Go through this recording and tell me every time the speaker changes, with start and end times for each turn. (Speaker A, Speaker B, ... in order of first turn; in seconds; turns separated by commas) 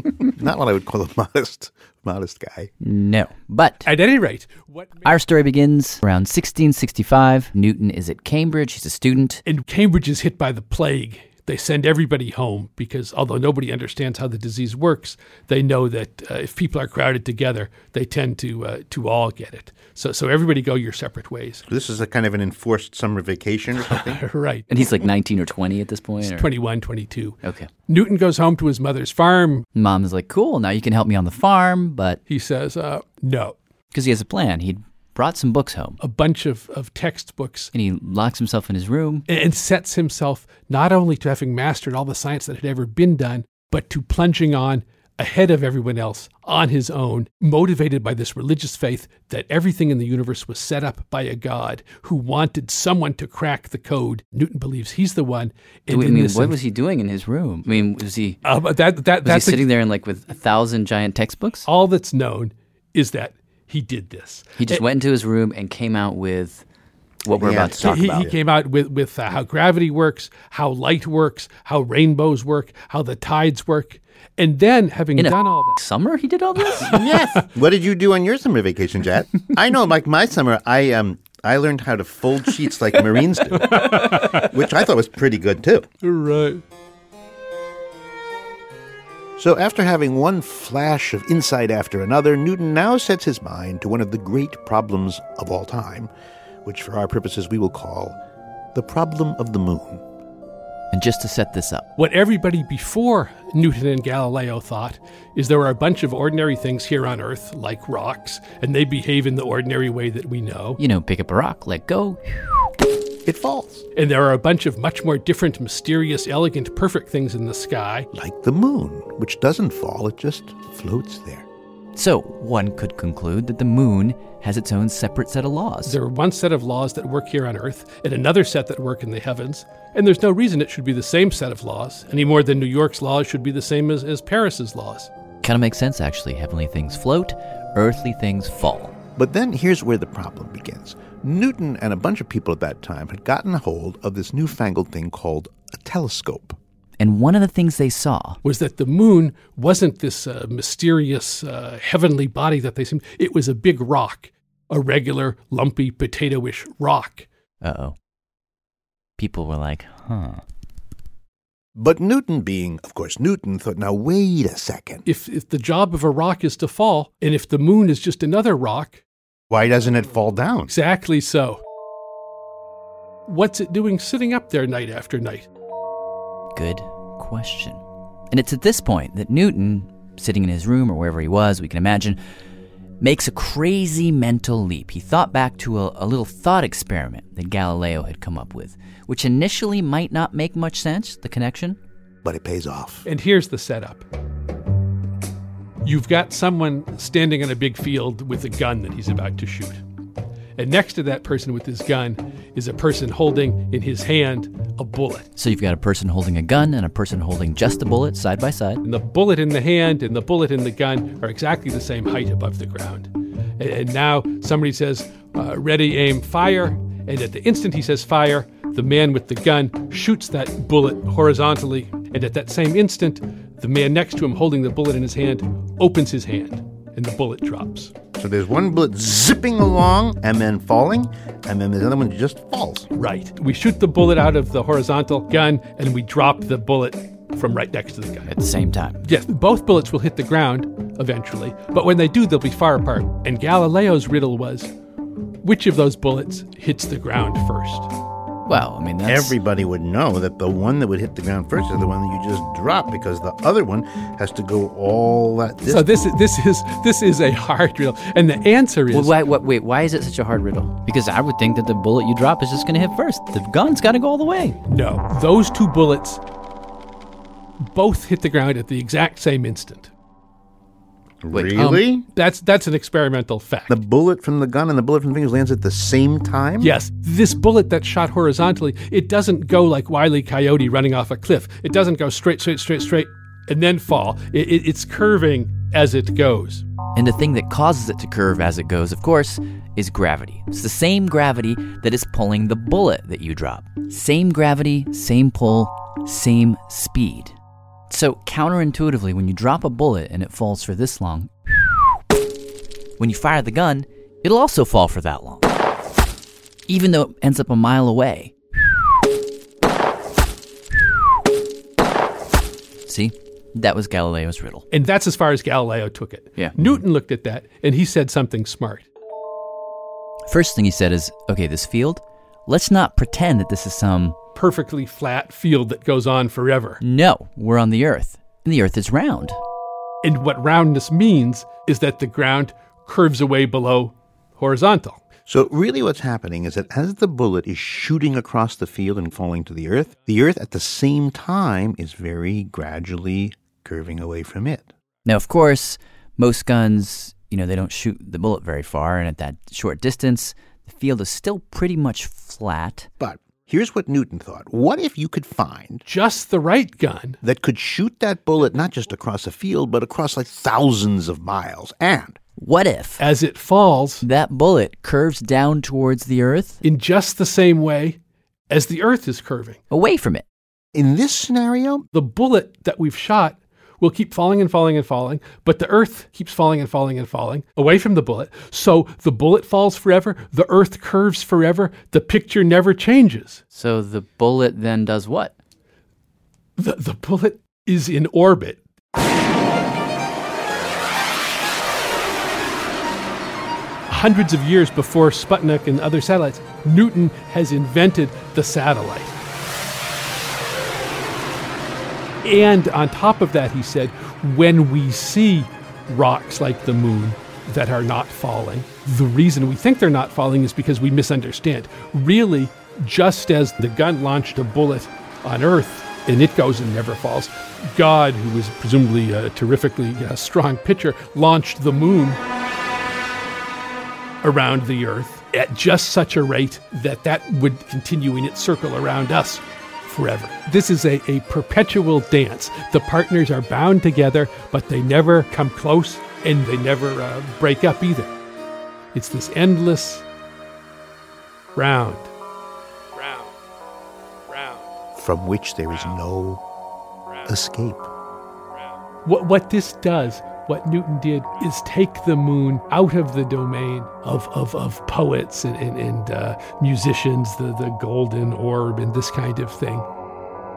Speaker A: 0.3-2.7, Speaker B: 2.8-3.9, Speaker C: 3.8-5.0, Speaker B: 5.0-9.4, Speaker C: 9.4-21.6, Speaker A: 21.7-24.2, Speaker C: 23.9-24.7, Speaker B: 24.7-26.5, Speaker C: 26.2-29.6, Speaker B: 27.4-27.7, Speaker B: 29.7-32.2, Speaker C: 32.3-33.6, Speaker B: 33.9-36.0, Speaker C: 36.0-37.7, Speaker B: 37.7-39.2, Speaker C: 39.3-56.6, Speaker B: 55.9-58.4, Speaker C: 58.4-59.6, Speaker B: 59.2-61.7, Speaker C: 61.6-64.8, Speaker B: 64.5-66.6, Speaker B: 67.2-68.3, Speaker A: 67.4-68.3, Speaker C: 67.6-75.8, Speaker B: 75.2-77.2, Speaker A: 76.8-85.9, Speaker C: 83.6-84.4, Speaker C: 86.0-86.6, Speaker A: 89.4-96.1, Speaker A: 96.6-98.2, Speaker A: 98.7-100.0, Speaker B: 100.9-101.9, Speaker C: 102.0-110.8, Speaker B: 110.8-112.5, Speaker A: 113.2-113.8, Speaker C: 113.9-118.1, Speaker A: 118.1-121.5, Speaker B: 121.9-126.0, Speaker C: 125.8-135.1, Speaker B: 135.4-139.0, Speaker A: 139.1-146.6, Speaker B: 147.0-148.4, Speaker C: 148.4-157.3, Speaker B: 157.6-157.9, Speaker B: 159.2-160.4, Speaker A: 161.8-165.0, Speaker C: 165.1-169.0, Speaker A: 169.5-170.7, Speaker C: 170.7-171.6, Speaker C: 173.3-175.5, Speaker B: 176.5-182.2, Speaker B: 183.0-191.8, Speaker A: 192.2-193.1, Speaker C: 193.0-194.0, Speaker C: 195.8-199.8, Speaker C: 200.6-205.3, Speaker B: 205.3-208.8, Speaker C: 208.8-227.9, Speaker A: 228.1-232.9, Speaker C: 232.9-238.3, Speaker B: 238.3-239.1, Speaker C: 239.0-244.7, Speaker C: 245.4-247.9, Speaker B: 248.5-249.4, Speaker A: 249.0-255.8, Speaker C: 255.6-259.1, Speaker B: 258.9-264.6, Speaker C: 264.7-266.2, Speaker C: 267.6-269.9, Speaker A: 271.2-272.1, Speaker B: 271.3-271.6, Speaker C: 271.6-273.8, Speaker A: 273.7-276.7, Speaker C: 276.6-286.6, Speaker B: 286.9-297.3, Speaker B: 297.9-301.3, Speaker B: 303.0-305.5, Speaker B: 306.7-308.3, Speaker B: 312.9-314.6, Speaker C: 314.7-318.9, Speaker B: 316.4-316.8, Speaker B: 320.3-324.2, Speaker C: 324.3-326.8, Speaker B: 326.8-329.4, Speaker C: 330.0-335.0, Speaker A: 335.3-344.7, Speaker B: 345.0-352.9, Speaker A: 353.0-355.8, Speaker C: 355.9-357.2, Speaker A: 357.2-362.2, Speaker B: 362.4-363.0, Speaker C: 363.0-364.0, Speaker B: 364.0-366.6, Speaker C: 366.6-368.0, Speaker C: 368.5-369.6, Speaker B: 369.7-370.2, Speaker A: 370.7-371.8, Speaker C: 371.9-383.4, Speaker B: 383.5-385.4, Speaker C: 386.6-388.6, Speaker C: 393.9-399.1, Speaker C: 402.2-422.2, Speaker C: 424.2-438.1, Speaker C: 438.9-440.0, Speaker C: 441.5-442.1, Speaker C: 442.9-443.3, Speaker C: 444.3-444.7, Speaker A: 444.9-446.4, Speaker A: 447.2-447.9, Speaker C: 449.0-459.9